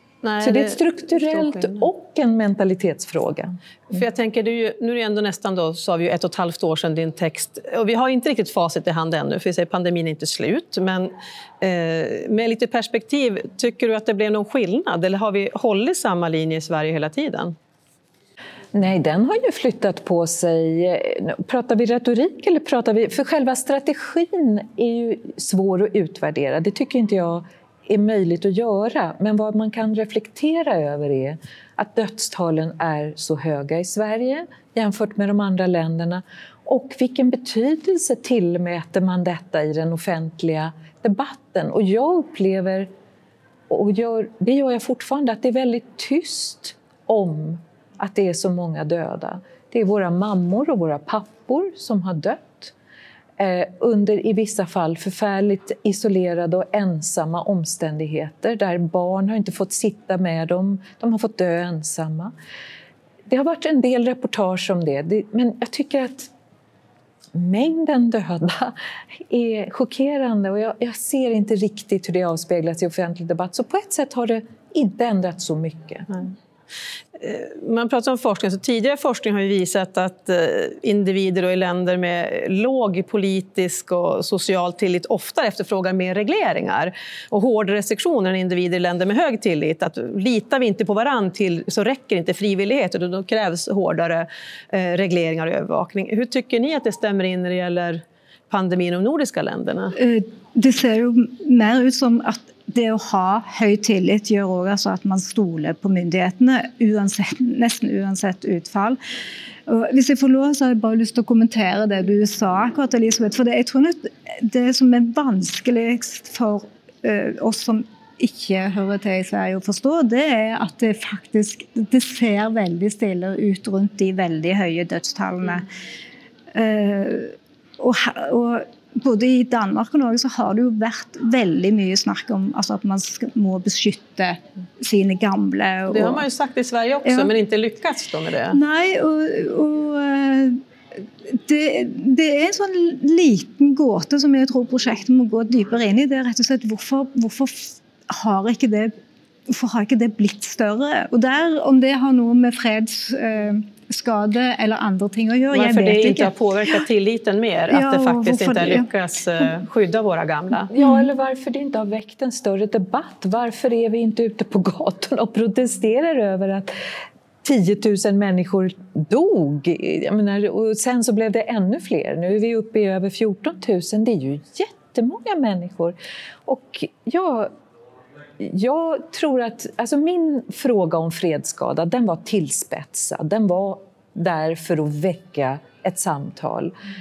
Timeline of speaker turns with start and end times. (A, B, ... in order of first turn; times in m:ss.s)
0:00.2-0:01.8 A
0:00.4-0:03.6 B
0:03.9-0:17.6 A
0:18.7-0:42.9 B
0:43.7-0:52.7 B
0:53.4-1:02.3 B
1:03.3-1:06.3 B
1:07.4-1:16.1 B
1:17.2-1:40.0 A
1:40.0-1:49.0 C
1:49.7-2:05.7 C
2:06.5-2:16.3 C
2:15.9-2:18.6 A
2:17.0-2:17.3 C
2:18.5-2:20.6 C
2:21.3-2:28.9 C
2:29.5-2:36.3 C
2:35.5-2:40.7 A
2:37.7-2:38.9 C
2:40.7-2:46.7 B
2:47.4-2:57.5 B
2:58.4-3:06.7 B